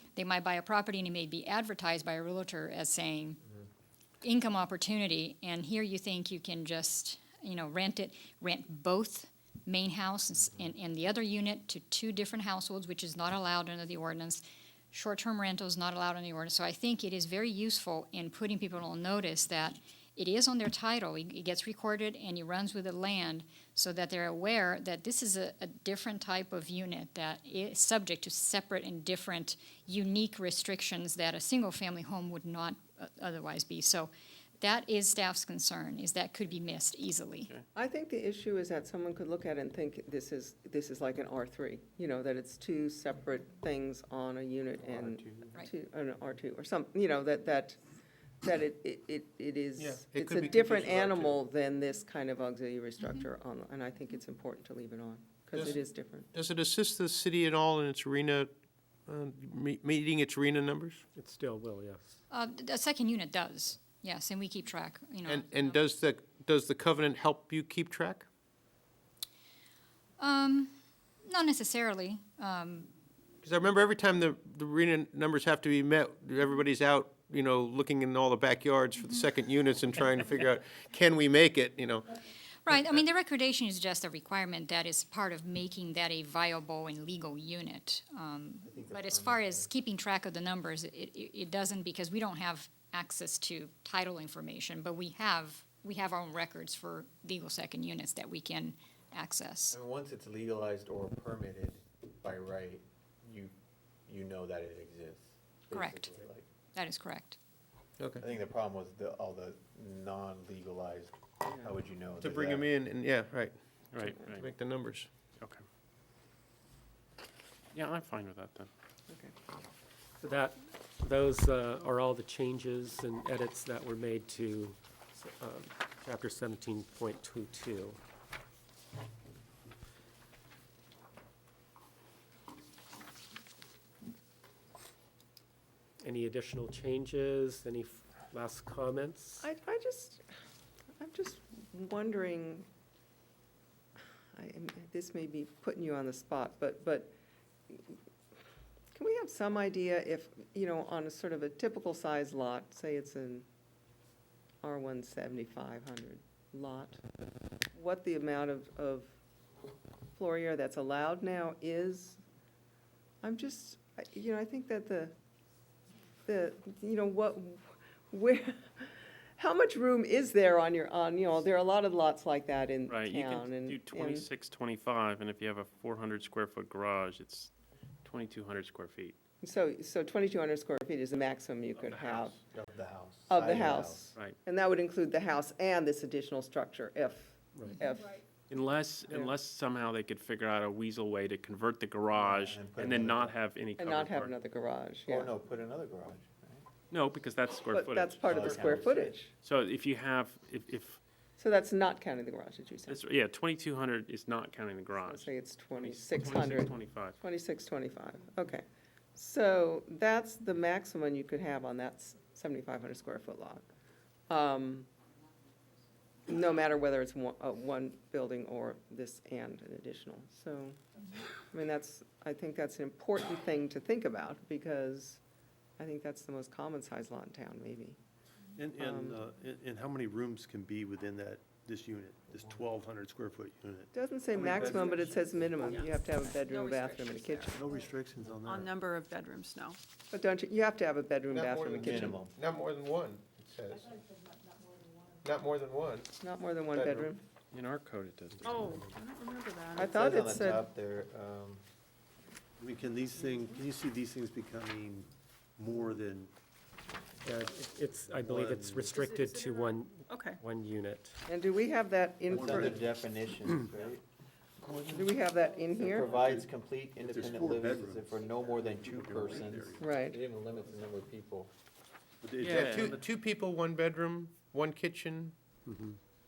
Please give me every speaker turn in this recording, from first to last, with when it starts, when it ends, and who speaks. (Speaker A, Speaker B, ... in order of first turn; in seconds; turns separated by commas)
Speaker A: 0.1-3.4, Speaker A: 4.2-37.5, Speaker B: 37.7-47.8, Speaker C: 44.9-45.5, Speaker B: 48.4-56.3, Speaker C: 49.8-51.4, Speaker C: 56.3-58.5, Speaker C: 59.1-61.0, Speaker D: 61.1-62.2, Speaker A: 62.3-65.8, Speaker C: 65.2-68.2, Speaker A: 70.2-70.7, Speaker A: 71.2-72.9, Speaker C: 73.4-82.1, Speaker A: 82.6-99.8, Speaker E: 88.6-89.7, Speaker E: 99.7-103.5, Speaker E: 104.1-106.5, Speaker A: 105.7-106.1, Speaker A: 106.7-107.4, Speaker C: 108.0-108.2, Speaker E: 108.2-112.7, Speaker B: 111.5-111.7, Speaker C: 112.2-115.1, Speaker F: 113.9-114.5, Speaker F: 117.7-118.7, Speaker B: 119.1-119.3, Speaker D: 120.2-128.0, Speaker D: 136.0-139.5, Speaker B: 139.4-140.2, Speaker B: 141.0-142.7, Speaker B: 144.3-147.1, Speaker B: 147.7-147.9, Speaker B: 148.9-153.4, Speaker B: 154.6-157.0, Speaker B: 157.7-159.1, Speaker B: 160.1-162.2, Speaker B: 163.2-165.1, Speaker B: 166.2-174.3, Speaker F: 172.9-177.5, Speaker F: 178.0-179.2, Speaker B: 179.4-182.4, Speaker F: 181.8-182.4, Speaker E: 182.5-184.1, Speaker B: 183.3-188.2, Speaker D: 187.5-187.8, Speaker F: 188.5-194.3, Speaker E: 192.2-193.4, Speaker B: 193.8-195.3, Speaker E: 195.1-196.6, Speaker F: 196.9-198.8, Speaker B: 197.7-199.3, Speaker E: 198.2-199.2, Speaker F: 199.4-201.0, Speaker B: 201.4-203.0, Speaker F: 202.9-207.2, Speaker B: 205.0-208.6, Speaker B: 209.1-213.6, Speaker B: 214.3-214.9, Speaker B: 216.3-220.8, Speaker B: 221.5-225.2, Speaker B: 225.8-228.0, Speaker G: 228.6-235.8, Speaker B: 228.7-229.2, Speaker B: 233.9-237.6, Speaker H: 236.5-237.5, Speaker G: 237.5-238.8, Speaker H: 238.4-239.8, Speaker B: 240.1-242.2, Speaker C: 241.3-244.0, Speaker E: 241.8-242.3, Speaker C: 245.2-246.1, Speaker B: 246.2-247.2, Speaker C: 246.7-247.1, Speaker F: 247.5-248.6, Speaker D: 248.4-249.0, Speaker H: 248.5-250.0, Speaker E: 249.8-251.6, Speaker B: 249.8-250.6, Speaker G: 252.6-256.3, Speaker D: 257.2-261.2, Speaker G: 258.1-259.0, Speaker H: 259.0-260.4, Speaker B: 261.3-262.8, Speaker E: 262.3-264.0, Speaker G: 262.3-262.8, Speaker B: 264.9-266.1, Speaker E: 265.8-271.5, Speaker G: 266.1-269.9, Speaker B: 269.8-270.2, Speaker G: 272.2-273.0, Speaker F: 272.4-272.9, Speaker C: 272.4-275.3, Speaker D: 275.7-276.0